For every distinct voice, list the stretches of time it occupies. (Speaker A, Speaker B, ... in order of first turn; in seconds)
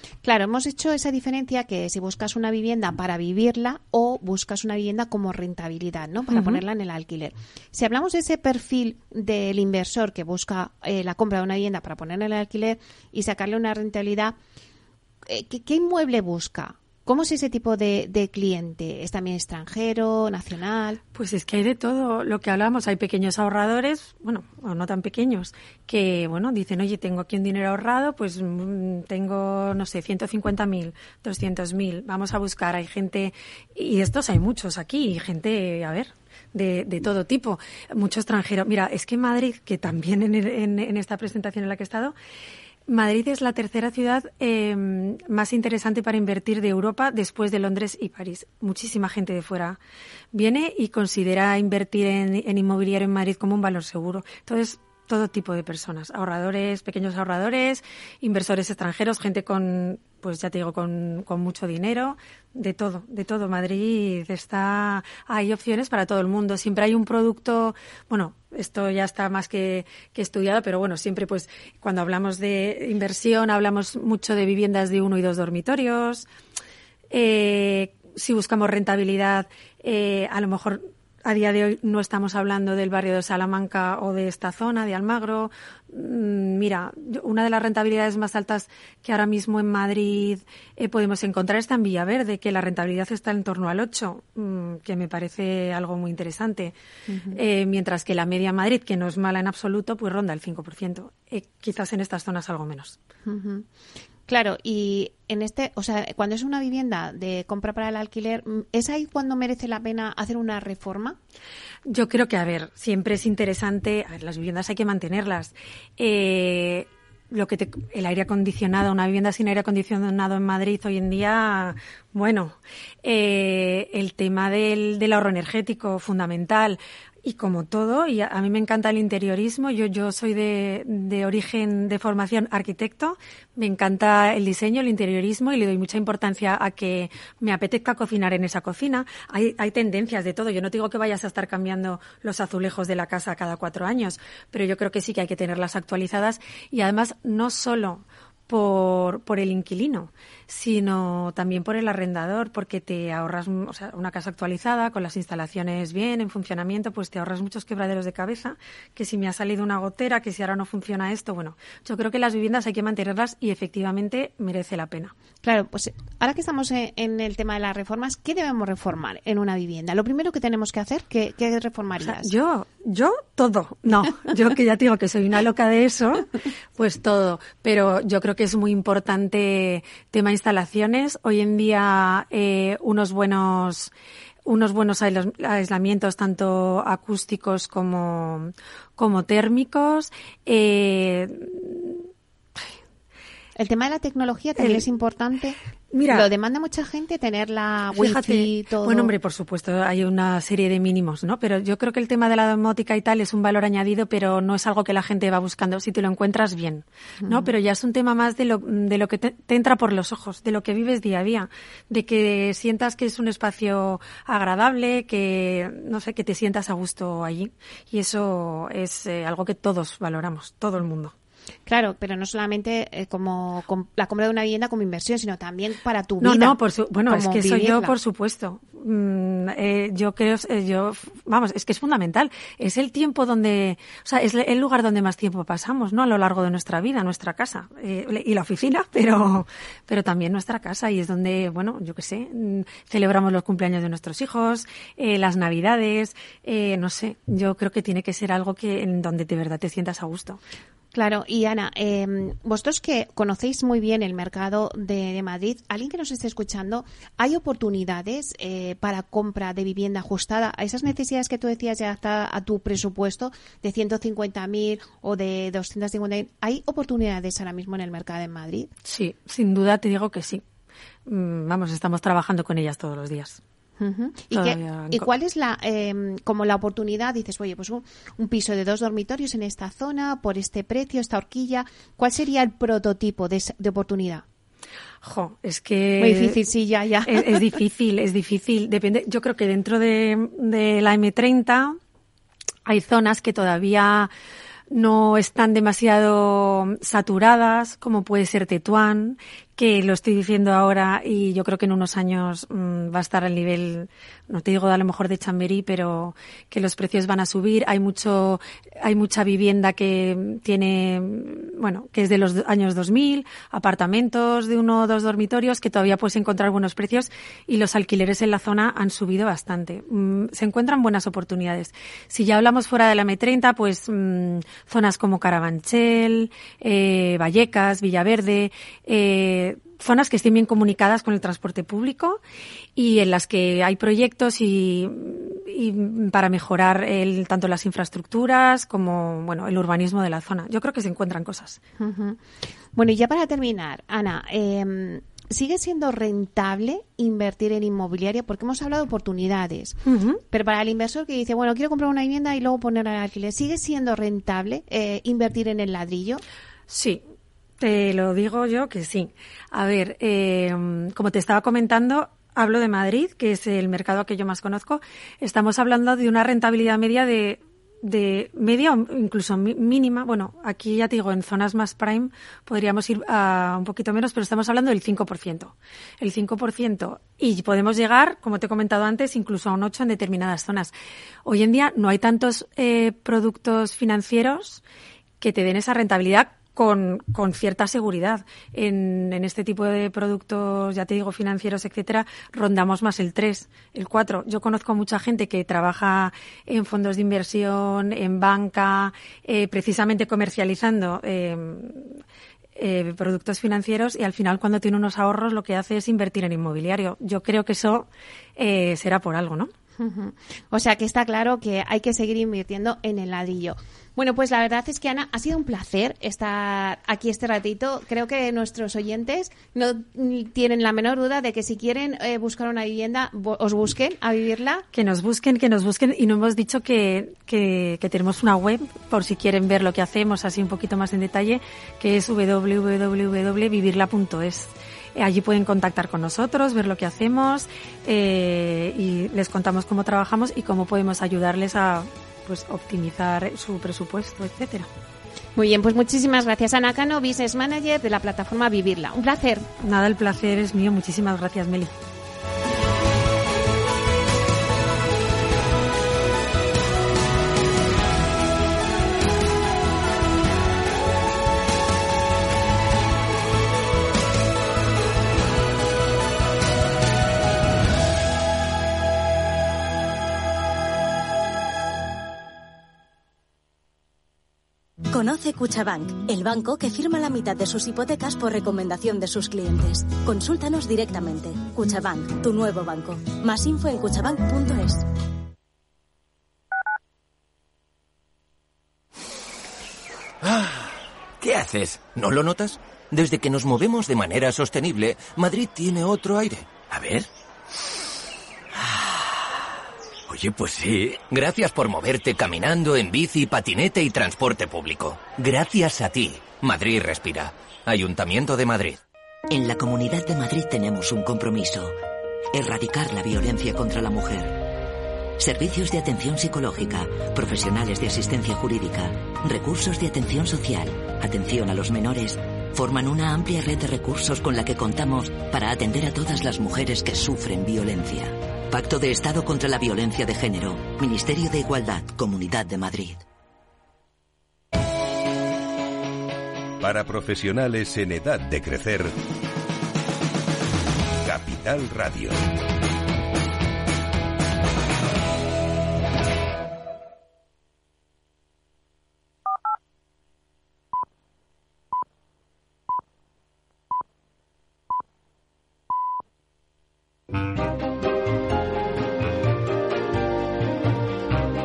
Speaker A: 0.2-14.4, 15.3-21.0, 97.1-97.4, 103.3-103.7, 104.3-111.2, 165.4-172.3, 193.6-195.6, 196.1-199.1, 207.2-207.5, 221.7-226.6, 227.1-227.9, 250.9-268.7, 273.8-284.2, 286.0-287.5, 341.8-342.2, 342.7-349.8, 350.3-356.2, 409.8-424.7, 445.4-449.5
Speaker B: 6.3-6.6, 21.1-42.1, 42.9-49.8, 50.3-76.3, 77.1-96.8, 97.3-103.0, 111.9-165.1, 172.0-183.9, 184.4-192.1, 194.6-194.8, 195.9-196.3, 197.9-221.1, 226.2-250.4, 268.8-270.4, 271.1-273.4, 274.3-275.1, 285.0-286.4, 287.1-291.8, 292.7-294.1, 294.7-332.2, 332.8-341.6, 349.9-350.2, 356.7-357.0, 357.6-380.7, 381.2-384.6, 385.2-402.0, 402.6-409.5, 424.7-444.7, 449.6-451.8
Speaker C: 474.9-484.9
Speaker D: 490.2-490.7, 491.2-497.1, 498.6-499.1, 500.1-508.8
Speaker E: 509.3-511.8, 512.3-514.5, 515.2-533.0
Speaker F: 536.6-539.0, 541.0-542.2